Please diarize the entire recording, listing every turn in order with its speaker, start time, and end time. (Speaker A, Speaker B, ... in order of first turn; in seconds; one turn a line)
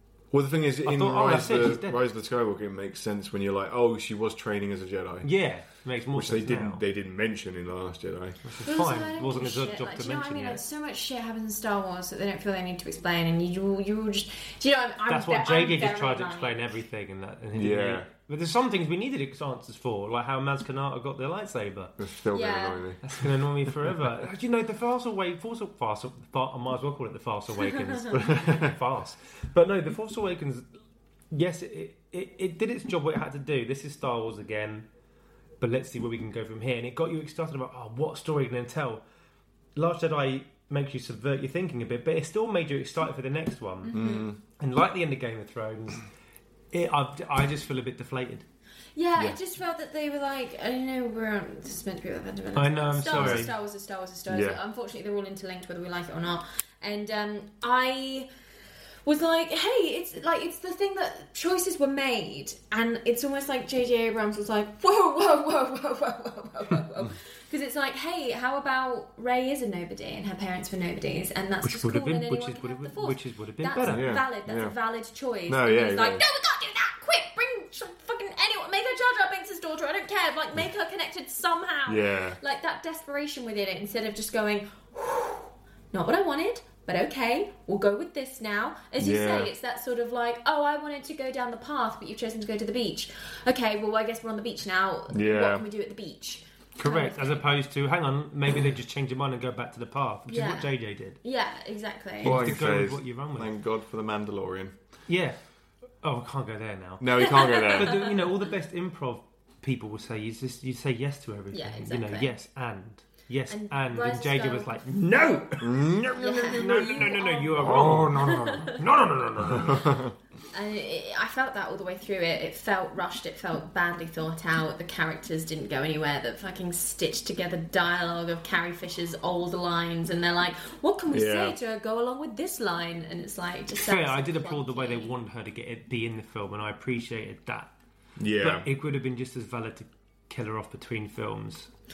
Speaker A: 0.3-5.3
Speaker B: 0.8-2.0
Speaker B: 5.2-6.8
Speaker A: 6.1-8.4
Speaker B: 8.4-10.6
Speaker C: 8.6-16.6
Speaker B: 15.1-21.9
Speaker A: 17.5-18.1
Speaker A: 22.0-23.2
Speaker C: 22.3-22.8
Speaker B: 23.0-30.6
Speaker A: 28.1-28.8
Speaker B: 31.3-34.9
Speaker B: 35.6-39.0
Speaker B: 39.7-44.0
Speaker C: 43.8-44.3
Speaker A: 43.9-44.4
Speaker B: 44.6-46.1
Speaker B: 46.7-48.5
Speaker C: 49.0-58.3
Speaker B: 52.5-53.5
Speaker A: 53.2-53.5
Speaker A: 54.3-54.6
Speaker C: 59.0-97.5
Speaker B: 71.6-74.1
Speaker A: 73.9-74.7
Speaker A: 75.5-76.2
Speaker A: 81.8-82.4
Speaker A: 89.0-89.5
Speaker A: 95.1-95.6
Speaker B: 96.8-101.2
Speaker C: 100.3-100.7
Speaker C: 101.2-102.5
Speaker B: 102.2-103.5
Speaker A: 102.2-104.8
Speaker B: 105.1-105.4
Speaker B: 106.0-119.8
Speaker A: 107.0-107.9
Speaker C: 107.2-108.4
Speaker C: 111.5-112.3
Speaker C: 113.5-115.5
Speaker A: 115.6-117.0
Speaker C: 116.1-118.8
Speaker A: 117.5-118.8
Speaker A: 119.4-120.1
Speaker C: 120.5-135.1
Speaker A: 131.1-131.6
Speaker B: 133.8-137.7
Speaker A: 138.2-138.7
Speaker B: 138.4-141.7